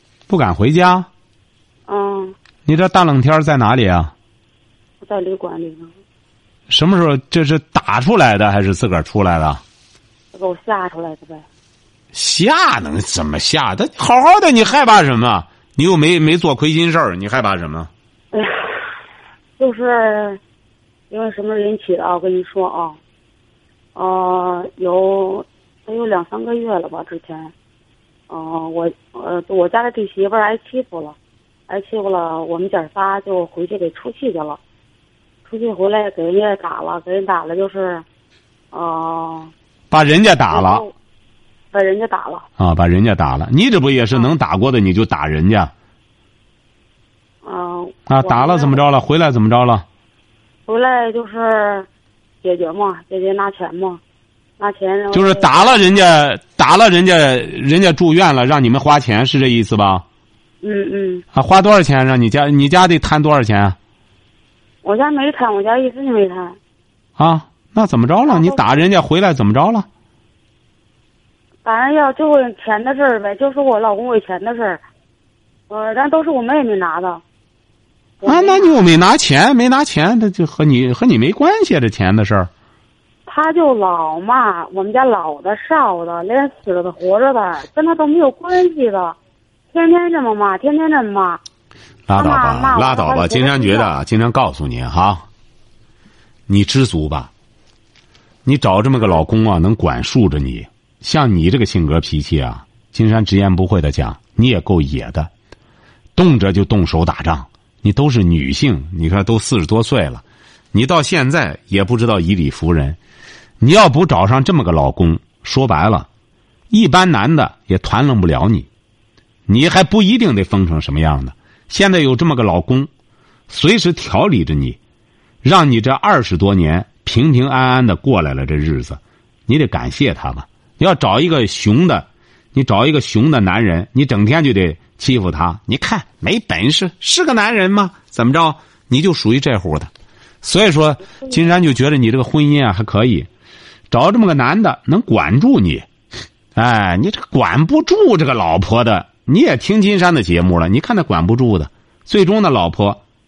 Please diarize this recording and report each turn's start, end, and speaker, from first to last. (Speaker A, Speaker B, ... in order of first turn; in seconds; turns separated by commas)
Speaker A: 0.3-1.1, Speaker B: 1.9-2.4, Speaker A: 2.7-4.1, Speaker B: 5.0-5.9, Speaker A: 6.7-9.6, Speaker B: 10.3-11.4, Speaker A: 12.1-17.9, Speaker B: 18.3-18.9, Speaker B: 19.6-20.4, Speaker B: 21.1-23.0, Speaker B: 23.9-27.5, Speaker B: 28.3-31.2, Speaker B: 31.7-34.6, Speaker B: 35.5-38.0, Speaker B: 38.7-39.5, Speaker A: 39.9-40.9, Speaker B: 40.5-40.9, Speaker B: 41.7-42.5, Speaker A: 42.6-45.7, Speaker B: 47.4-48.8, Speaker A: 48.1-49.9, Speaker B: 50.7-51.9, Speaker B: 52.4-54.0, Speaker B: 54.6-55.8, Speaker A: 55.1-60.0, Speaker B: 60.6-61.2, Speaker A: 61.3-63.8, Speaker B: 64.8-66.6, Speaker A: 67.2-69.9, Speaker B: 68.3-68.9, Speaker B: 71.6-74.8, Speaker B: 75.7-77.2, Speaker B: 78.2-78.9, Speaker A: 78.3-82.5, Speaker B: 83.3-89.2, Speaker B: 89.7-91.4, Speaker A: 92.1-95.2, Speaker B: 92.1-93.9, Speaker A: 96.5-97.3, Speaker A: 98.5-105.3, Speaker A: 106.2-113.0, Speaker A: 113.6-116.1, Speaker A: 116.7-118.7, Speaker A: 119.5-122.9, Speaker A: 123.5-124.8, Speaker A: 125.4-139.9, Speaker A: 140.4-143.3, Speaker A: 143.9-145.9, Speaker A: 146.6-153.0